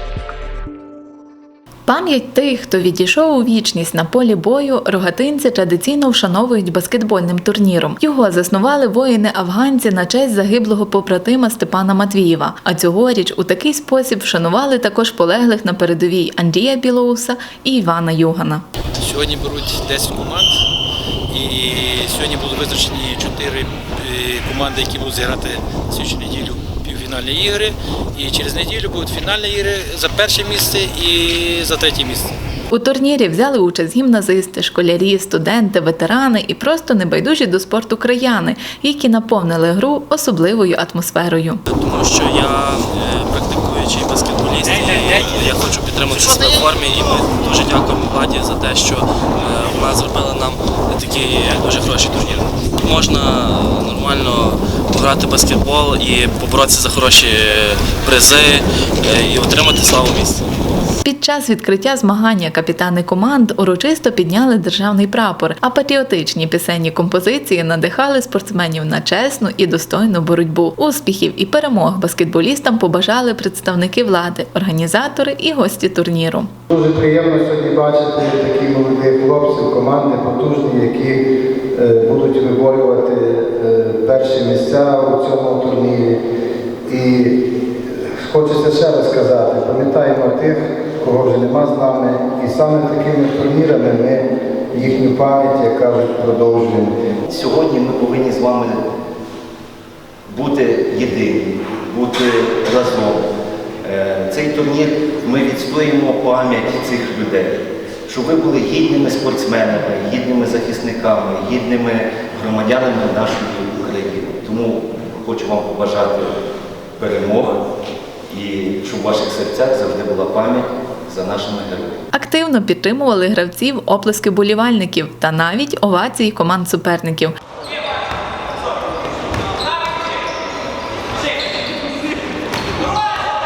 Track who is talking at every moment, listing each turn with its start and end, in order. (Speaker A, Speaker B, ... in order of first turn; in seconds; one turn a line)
Speaker A: 1.9-18.6
Speaker B: 19.0-20.5
Speaker B: 21.3-32.3
Speaker A: 32.7-41.6
Speaker C: 41.7-60.4
Speaker A: 61.0-76.5
Speaker D: 76.7-81.2
Speaker D: 81.7-86.2
Speaker D: 86.9-87.4
Speaker D: 88.1-97.0
Speaker E: 97.3-98.9
Speaker E: 100.3-103.2
Speaker E: 103.8-116.4
Speaker E: 117.0-117.6
Speaker E: 118.3-122.0
Speaker A: 122.1-127.4